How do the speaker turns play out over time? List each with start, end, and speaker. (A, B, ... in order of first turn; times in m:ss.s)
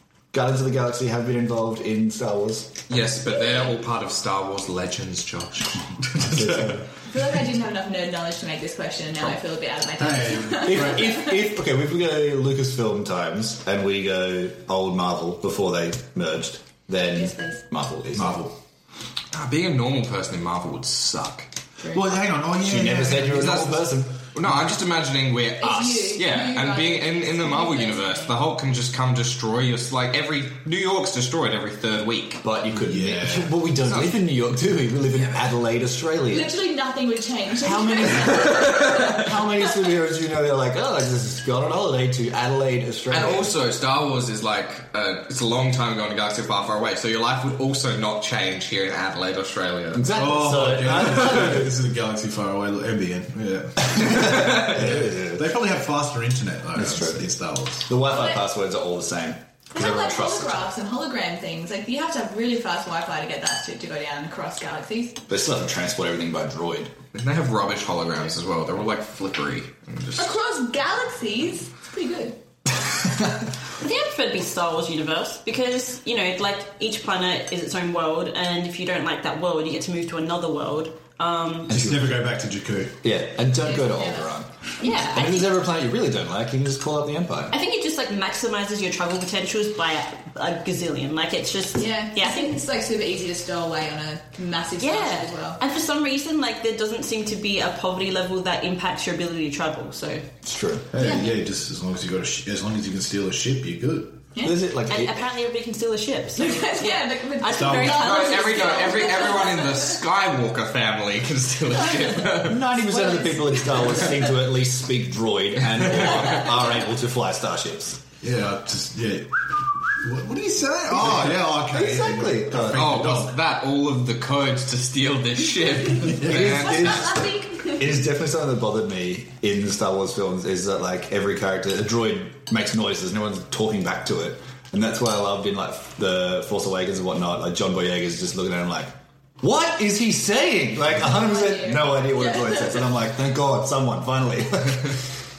0:00.3-0:02.8 A
0:02.9-0:06.8 B
0:06.2-0:06.9 A
0:07.1-0:11.4 C
0:10.0-0:11.2 D
0:10.6-0:18.5 A
0:17.1-0:17.6 C
0:18.1-0:18.6 D
0:19.3-0:21.5 B
0:21.9-0:23.8 D
0:22.5-0:24.2 A
0:23.3-0:32.4 B
0:25.6-0:28.4 C
0:32.4-0:36.6 A
0:32.7-0:33.7 D
0:33.8-0:34.3 B
0:35.1-0:35.4 B
0:36.3-0:38.8 C
0:37.6-0:43.6 A
0:38.0-0:39.1 B
0:43.1-0:50.2 B
0:49.9-0:51.8 A
0:50.1-0:57.9 D
0:53.9-0:55.6 A
0:56.8-0:57.3 A
0:57.9-1:00.6 A
0:58.1-0:58.4 C
0:59.7-1:05.2 C
1:05.3-1:06.9 A
1:07.1-1:10.3 B
1:10.2-1:12.4 C
1:13.8-1:21.7 E
1:21.7-1:23.0 D
1:21.7-1:22.2 A
1:23.0-1:27.6 A
1:23.6-1:24.3 C
1:24.8-1:25.6 E
1:27.5-1:32.6 E
1:31.8-1:35.6 C
1:34.8-1:40.3 E
1:40.4-1:40.9 A
1:40.9-1:44.3 D
1:41.0-1:41.3 E
1:44.4-1:45.3 A
1:44.8-1:49.3 E
1:46.4-1:50.0 C
1:47.5-1:48.1 D
1:47.9-1:52.6 B
1:52.4-1:58.0 A
1:52.9-1:54.0 C
1:55.9-1:56.3 B
1:58.2-2:03.3 D
2:00.9-2:03.2 A
2:02.7-2:07.1 B
2:06.1-2:25.0 A
2:06.2-2:06.6 D
2:06.4-2:07.9 C
2:21.0-2:22.8 C